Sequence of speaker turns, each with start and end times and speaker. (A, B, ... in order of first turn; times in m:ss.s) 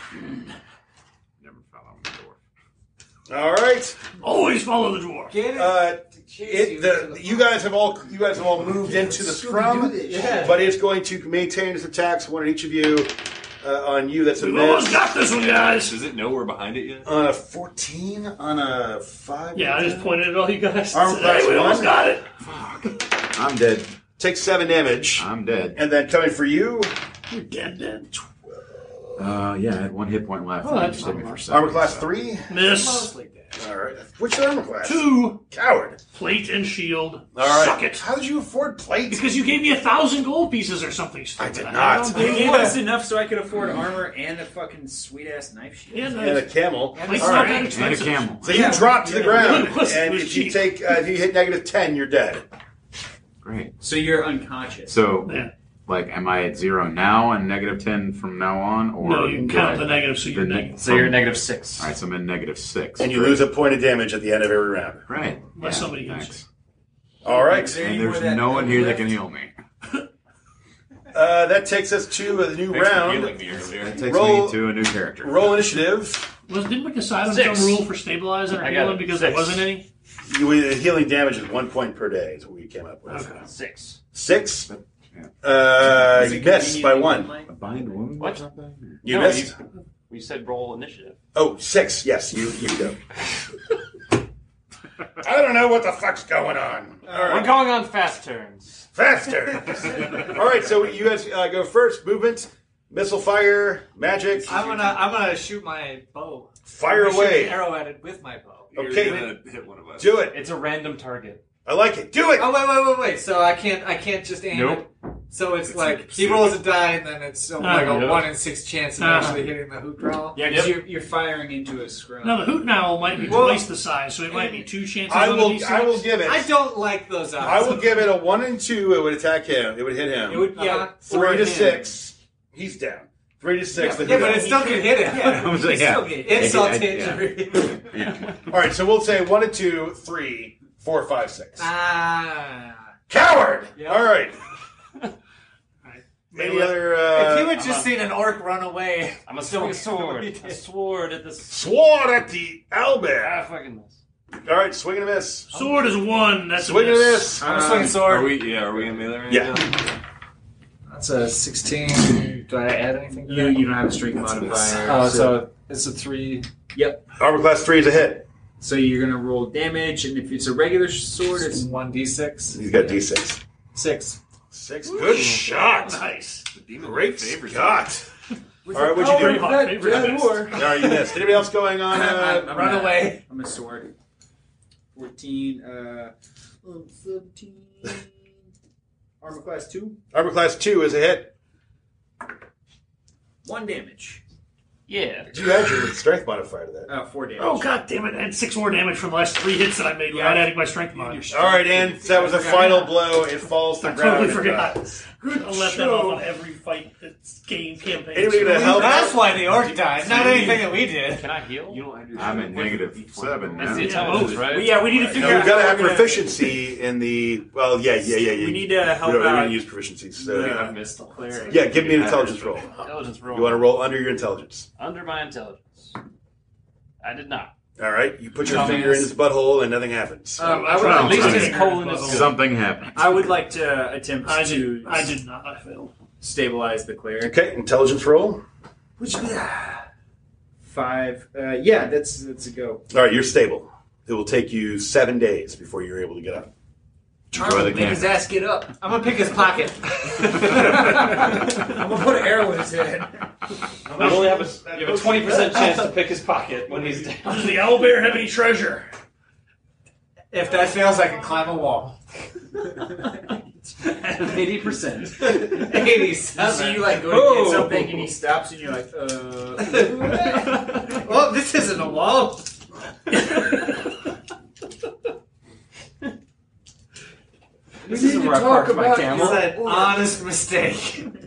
0:01.4-0:02.4 A
0:03.3-0:04.0 B
0:04.2-0:05.4 C
0:05.3-0:07.5 D
0:05.5-0:15.2 B
0:08.8-0:10.6 E
0:10.0-0:10.6 D
0:14.4-0:16.0 C
0:15.2-0:17.1 F
0:17.0-0:20.2 B
0:19.5-0:22.2 C
0:20.9-0:22.0 B
0:22.4-0:23.9 A
0:24.2-0:26.9 B
0:25.1-0:25.8 A
0:27.3-0:28.1 C
0:28.1-0:29.3 B
0:29.2-0:32.1 A
0:30.6-0:31.4 C
0:31.5-0:32.7 B
0:32.5-0:33.1 C
0:32.8-0:33.4 D
0:33.6-0:36.0 B
0:34.8-0:35.4 C
0:36.1-0:38.0 C
0:37.4-0:39.3 B
0:39.1-0:42.8 C
0:41.4-0:42.7 B
0:42.2-0:46.3 E
0:45.9-0:50.7 C
0:46.2-0:47.7 B
0:46.9-0:47.7 D
0:47.6-0:48.8 A
0:48.4-0:52.4 B
0:48.4-0:49.8 E
0:53.4-0:53.7 A
0:53.8-0:55.0 E
0:54.9-0:55.3 A
0:55.3-0:55.5 C
0:55.9-1:03.5 A
0:59.0-1:00.8 C
1:00.8-1:01.9 G
1:03.0-1:05.1 B
1:05.1-1:06.4 A
1:05.6-1:06.4 C
1:07.2-1:07.9 B
1:07.2-1:09.2 E
1:07.7-1:09.5 A
1:11.1-1:13.4 B
1:12.6-1:14.0 F
1:13.8-1:15.6 A
1:14.0-1:16.3 B
1:16.5-1:19.8 C
1:17.3-1:17.8 G
1:18.5-1:19.7 G
1:20.3-1:23.4 B
1:23.1-1:23.5 C
1:23.5-1:24.0 G
1:24.1-1:24.7 B
1:24.7-1:25.3 A
1:25.4-1:27.3 B
1:26.0-1:27.8 E
1:27.5-1:29.0 A
1:28.2-1:28.4 G
1:29.0-1:29.5 B
1:29.0-1:29.6 G
1:30.1-1:31.2 G
1:31.4-1:33.0 B
1:35.2-1:37.7 B
1:37.1-1:37.4 E
1:37.1-1:38.8 G
1:38.9-1:44.9 B
1:44.4-1:48.8 D
1:46.7-1:47.7 B
1:48.7-1:50.3 F
1:48.7-1:49.4 B
1:50.0-1:50.4 B
1:50.3-1:51.4 G
1:51.6-1:52.6 B
1:52.4-2:00.6 D
1:54.5-1:54.8 G
1:55.7-1:56.6 F
1:57.6-1:58.1 C
1:57.6-1:58.3 G
1:59.0-1:59.5 C
2:00.3-2:02.6 E
2:00.4-2:00.8 G
2:02.2-2:06.1 C
2:03.2-2:03.7 E
2:05.1-2:06.6 B
2:06.2-2:08.0 D
2:07.4-2:14.8 B
2:10.3-2:11.9 D
2:10.3-2:11.4 E
2:13.7-2:16.7 E
2:13.8-2:17.9 D
2:15.2-2:18.2 A
2:18.5-2:21.7 B
2:21.6-2:22.8 D
2:23.1-2:24.4 B
2:25.8-2:26.8 C
2:26.3-2:27.6 B
2:27.0-2:30.6 D
2:27.5-2:28.1 G
2:29.3-2:31.6 G
2:31.5-2:33.5 B
2:33.1-2:34.0 G
2:34.4-2:35.5 B
2:35.5-2:37.4 C
2:36.5-2:37.9 B
2:37.4-2:38.1 E
2:37.4-2:38.6 D
2:37.9-2:39.8 F
2:39.3-2:39.7 B
2:40.9-2:43.8 D
2:43.2-2:45.4 E
2:44.4-2:46.5 D
2:46.7-2:47.0 E
2:47.2-2:48.2 B
2:48.6-2:51.7 E
2:51.4-2:53.0 D
2:52.5-2:53.4 B
2:53.7-2:54.2 D
2:54.5-2:56.0 B
2:54.9-2:56.5 C
2:56.5-2:58.0 F
2:56.8-2:58.1 B
2:58.7-3:01.1 F
2:58.7-2:59.6 B
2:58.9-3:00.6 C
3:00.5-3:02.7 B
3:01.9-3:03.9 E
3:02.4-3:03.2 D
3:04.9-3:08.2 E
3:09.2-3:10.0 E
3:10.1-3:11.3 B
3:13.4-3:14.2 E
3:14.9-3:15.7 G
3:15.3-3:16.9 B
3:16.9-3:17.7 E
3:17.4-3:21.3 C
3:20.1-3:21.8 E
3:21.3-3:24.8 B
3:22.0-3:23.0 D
3:23.8-3:29.0 C
3:25.1-3:26.3 F
3:28.1-3:29.5 B
3:28.5-3:31.3 D
3:29.5-3:30.7 F
3:30.0-3:31.8 G
3:31.7-3:35.2 F
3:32.2-3:34.0 A
3:33.6-3:34.9 G
3:33.8-3:34.5 C
3:34.6-3:36.3 E
3:34.7-3:35.7 D
3:35.1-3:40.8 B
3:38.2-3:39.6 G
3:40.2-3:43.7 G
3:41.5-3:44.7 B
3:44.8-3:46.0 G
3:47.0-3:47.5 G
3:47.8-3:50.6 B
3:48.5-3:49.1 D
3:48.5-3:48.9 E
3:50.4-3:51.7 E
3:50.4-3:52.3 C
3:50.8-3:53.3 A
3:50.8-3:52.4 G
3:53.0-3:55.1 E
3:54.2-3:55.9 C
3:56.2-3:57.3 E
3:57.2-3:58.4 B
3:59.0-3:59.8 E
4:00.6-4:02.8 E
4:02.9-4:06.5 B
4:07.3-4:09.2 E
4:07.3-4:08.2 A
4:08.7-4:11.0 D
4:10.1-4:13.3 E
4:13.9-4:15.6 B
4:14.0-4:17.7 G
4:17.2-4:18.9 C
4:20.3-4:22.0 D
4:23.8-4:25.4 G
4:24.1-4:30.9 E
4:25.2-4:27.1 D
4:27.0-4:28.1 G
4:29.6-4:32.5 D
4:37.9-4:40.2 F
4:37.9-4:39.4 E
4:38.7-4:39.4 G
4:39.0-4:41.1 D